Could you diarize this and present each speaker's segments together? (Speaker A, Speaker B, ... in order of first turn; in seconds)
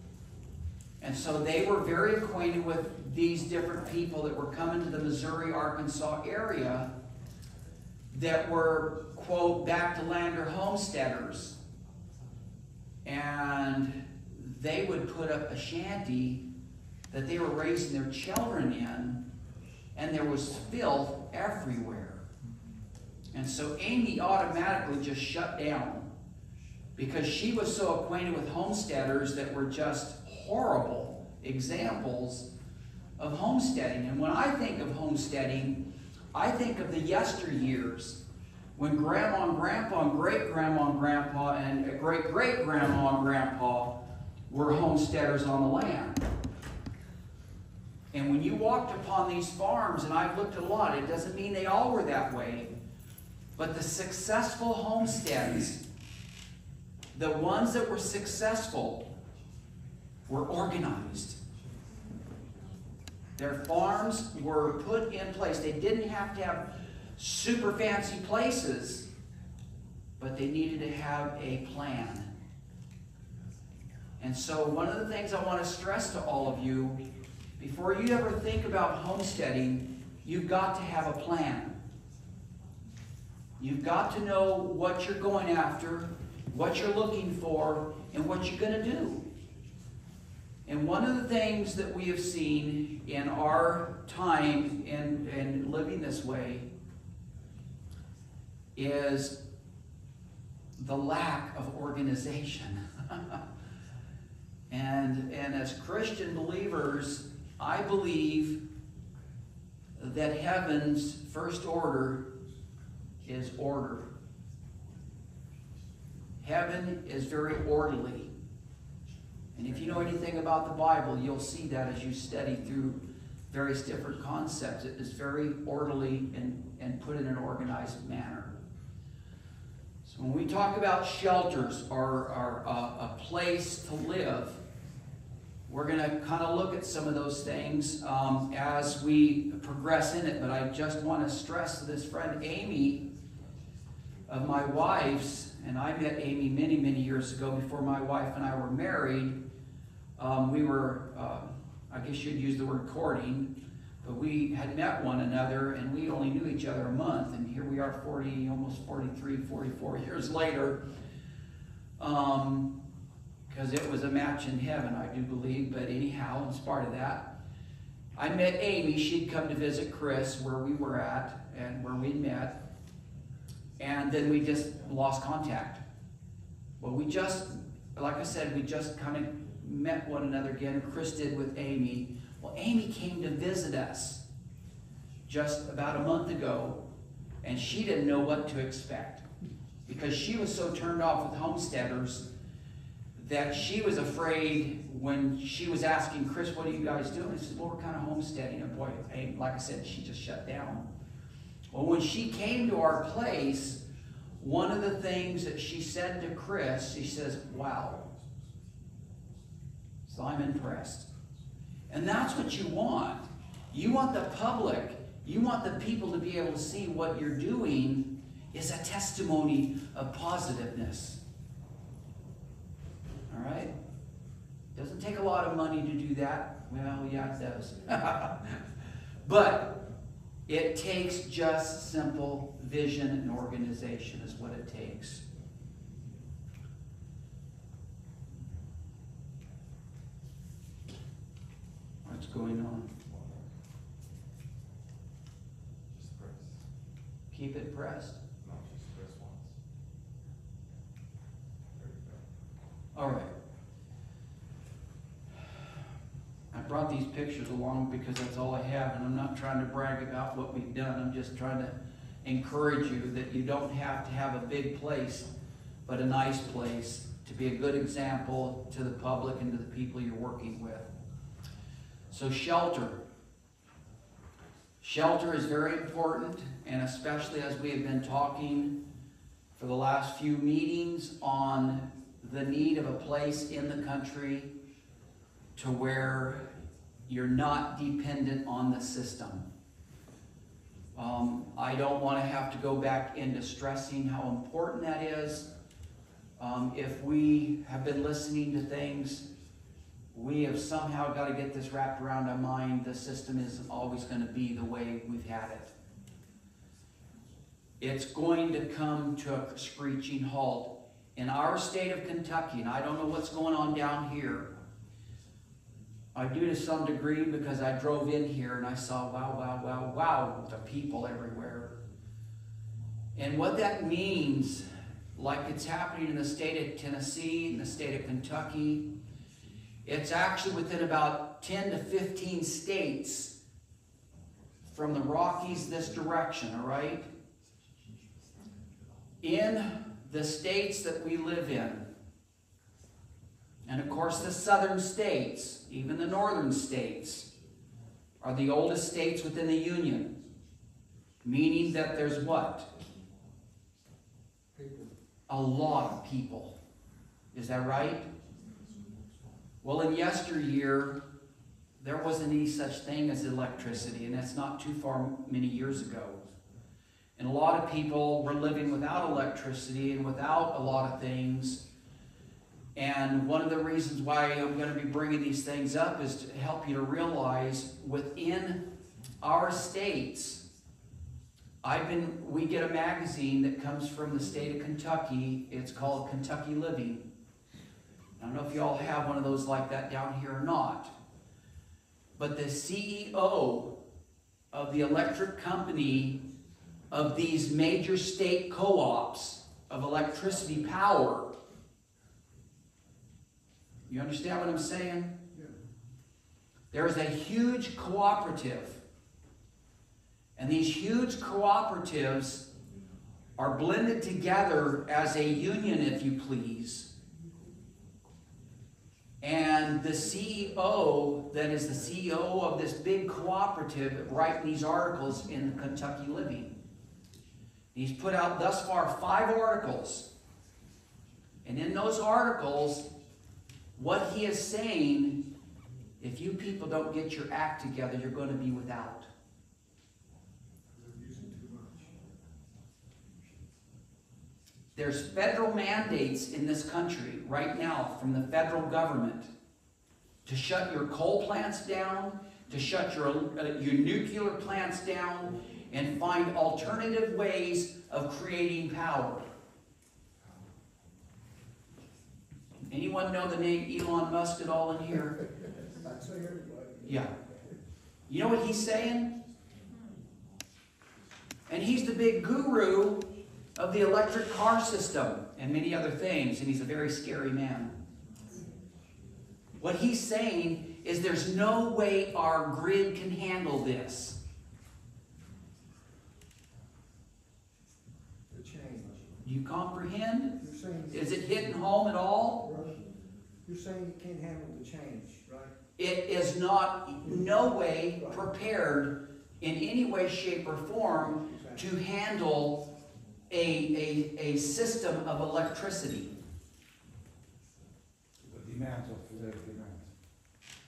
Speaker A: 1.0-6.9, 8.1-11.6, 13.1-16.4, 17.1-19.2, 19.9-22.2, 23.3-26.1, 27.0-32.5, 33.2-35.8, 36.3-38.2, 38.8-44.0, 44.5-46.2, 48.1-52.7, 53.6-55.8, 57.1-59.1, 60.3-61.4, 63.4-69.1, 70.2-72.3, 74.2-77.0, 77.6-81.8, 83.6-89.2, 90.7-96.7, 98.8-99.3, 100.8-103.4, 104.7-108.6, 110.0-112.2, 113.2-114.1, 116.4-118.3, 119.5-128.5, 130.1-134.6, 135.7-143.0, 144.3-149.4, 150.2-153.5, 154.0-160.8, 162.0-162.7, 163.5-167.3, 168.2-172.6, 173.8-175.8, 176.8-184.2, 185.3-186.8, 187.4-189.2, 189.9-192.2, 193.2-200.9, 201.7-203.8, 204.4-208.0, 210.1-211.1, 211.9-221.2, 223.3-223.7, 224.8-228.6, 229.2-229.7, 230.5-235.2, 242.1-242.9, 247.3-248.2, 252.9-253.3, 256.5-265.3, 265.9-270.9, 272.1-273.0, 274.8-278.7, 279.6-284.5, 285.6-286.5, 287.1-289.5, 290.9-295.5, 296.4-299.2, 300.1-305.7, 307.8-314.5, 316.1-321.7, 323.1-328.9, 329.9-333.3, 334.7-337.1, 339.2-341.9, 343.7-347.3, 348.2-350.1, 351.2-352.7, 355.3-356.5, 357.3-358.1, 359.6-361.0, 361.8-366.2, 367.2-371.6, 372.8-378.6, 379.2-380.4, 381.6-387.0, 388.2-390.9, 392.2-393.7, 394.5-396.2, 396.9-401.3, 403.9-405.1, 406.7-408.8, 410.4-412.4, 413.4-416.9, 419.2-426.5, 427.7-430.1, 431.4-432.9, 433.8-435.2, 436.0-439.1, 444.8-449.3, 450.3-459.3, 462.7-465.2, 466.9-467.1, 468.1-469.1, 471.5-473.0, 473.6-477.7, 479.6-484.2, 489.2-490.3, 490.9-492.4, 495.8-502.6, 503.3-506.1
Speaker B: 243.1-243.5, 245.9-246.6, 248.4-249.5, 251.7-252.2
Speaker C: 354.6-354.9, 440.7-441.9, 465.8-467.5, 488.3-489.0, 490.4-491.6, 492.4-492.8, 493.4-495.5, 501.3-501.6, 508.5-509.6